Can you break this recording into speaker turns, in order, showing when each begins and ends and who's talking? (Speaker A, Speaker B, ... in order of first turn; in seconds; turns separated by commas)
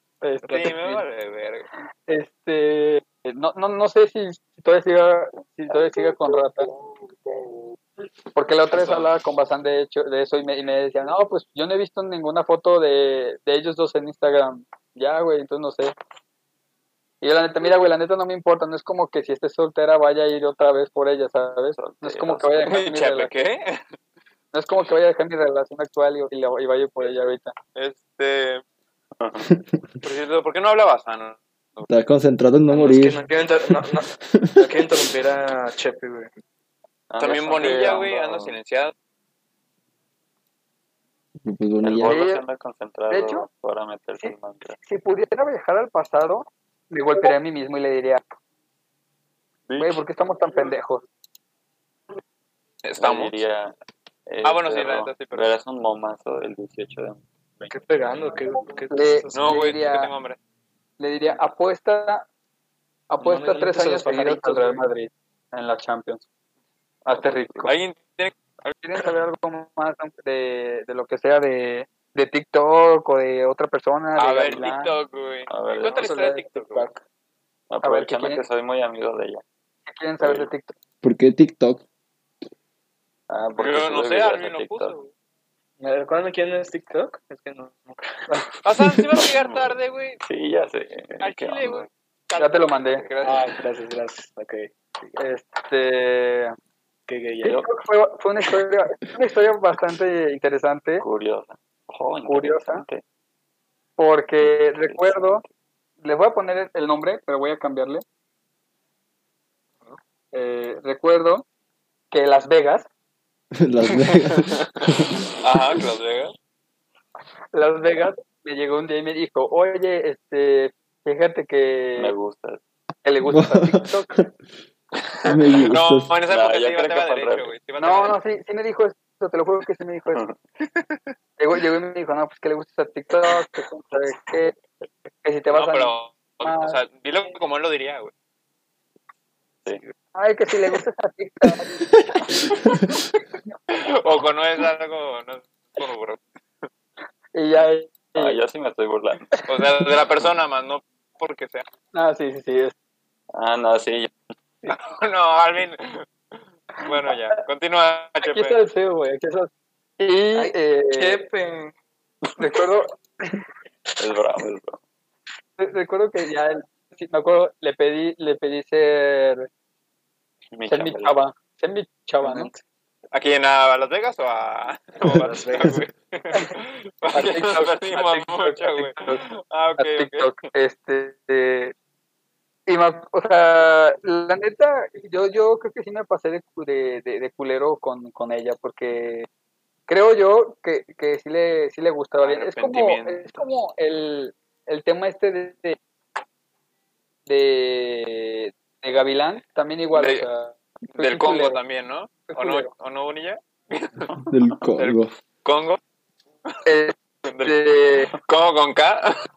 Speaker A: 0.2-1.0, Speaker B: 0.5-1.7, Speaker A: 2.1-6.7, Speaker A: 8.3-15.9, Speaker A: 17.2-23.3, Speaker C: 21.8-22.7, Speaker B: 22.6-23.8, Speaker A: 24.5-27.6, Speaker B: 27.8-28.6, Speaker C: 29.2-29.5, Speaker B: 30.0-31.9, Speaker D: 31.9-33.2, Speaker E: 32.7-36.3, Speaker D: 34.3-34.8, Speaker C: 37.1-38.6, Speaker B: 37.2-38.9, Speaker A: 37.6-38.0, Speaker D: 41.4-42.2, Speaker C: 41.8-44.8, Speaker A: 42.0-42.4, Speaker A: 43.1-43.5, Speaker A: 44.2-48.2, Speaker C: 49.7-50.0, Speaker A: 49.8-51.0, Speaker B: 52.8-53.4, Speaker C: 53.0-53.8, Speaker C: 54.3-57.7, Speaker B: 54.4-55.5, Speaker E: 57.7-59.7, Speaker A: 58.9-60.1, Speaker B: 59.3-60.4, Speaker A: 61.0-62.3, Speaker A: 63.1-66.2, Speaker E: 63.2-64.8, Speaker A: 67.1-67.8, Speaker C: 67.1-67.6, Speaker B: 67.7-68.8, Speaker A: 68.8-74.9, Speaker B: 74.2-76.9, Speaker C: 75.5-76.1, Speaker E: 75.8-77.0, Speaker C: 77.7-79.4, Speaker A: 77.8-78.4, Speaker A: 79.9-80.8, Speaker C: 80.2-80.5, Speaker D: 81.0-81.8, Speaker C: 83.3-85.0, Speaker B: 83.6-85.1, Speaker E: 85.8-88.0, Speaker B: 88.6-90.2, Speaker C: 89.2-91.9, Speaker B: 91.2-93.2, Speaker A: 92.4-93.1, Speaker E: 93.2-95.2, Speaker A: 95.2-96.6, Speaker E: 97.1-97.6, Speaker A: 97.5-101.0, Speaker C: 101.0-103.0, Speaker A: 102.3-102.8, Speaker A: 104.0-105.4, Speaker C: 104.4-105.5, Speaker A: 106.0-108.0, Speaker A: 110.3-111.5, Speaker A: 112.1-112.9, Speaker D: 113.5-115.2, Speaker B: 115.4-116.3, Speaker A: 117.5-122.1, Speaker C: 122.0-122.6, Speaker A: 123.0-124.1, Speaker D: 123.3-124.3, Speaker D: 125.2-126.1, Speaker B: 125.6-128.2, Speaker C: 126.3-127.5, Speaker A: 127.8-130.2, Speaker A: 131.4-134.5, Speaker A: 135.2-136.8, Speaker B: 135.5-138.1, Speaker A: 140.1-141.7, Speaker B: 143.7-146.2, Speaker A: 147.3-148.4, Speaker C: 148.2-149.3, Speaker B: 149.5-151.6, Speaker A: 151.9-152.8, Speaker C: 153.3-154.1, Speaker B: 154.7-156.1, Speaker B: 156.8-158.6, Speaker A: 156.8-157.3, Speaker A: 158.2-161.2, Speaker E: 160.3-161.7, Speaker A: 162.4-163.4, Speaker C: 164.0-164.8, Speaker A: 165.6-169.5, Speaker C: 170.5-171.2, Speaker A: 170.7-172.5, Speaker E: 172.2-172.6, Speaker B: 173.1-180.4, Speaker E: 175.0-175.9, Speaker A: 177.1-179.2, Speaker A: 179.8-181.7, Speaker A: 182.7-189.3, Speaker A: 189.9-195.8, Speaker B: 192.2-193.3, Speaker A: 197.3-201.6, Speaker B: 199.9-200.3, Speaker B: 200.9-204.2, Speaker A: 202.3-202.7, Speaker D: 204.3-205.1, Speaker B: 204.8-205.8, Speaker A: 206.6-208.1, Speaker B: 207.2-209.2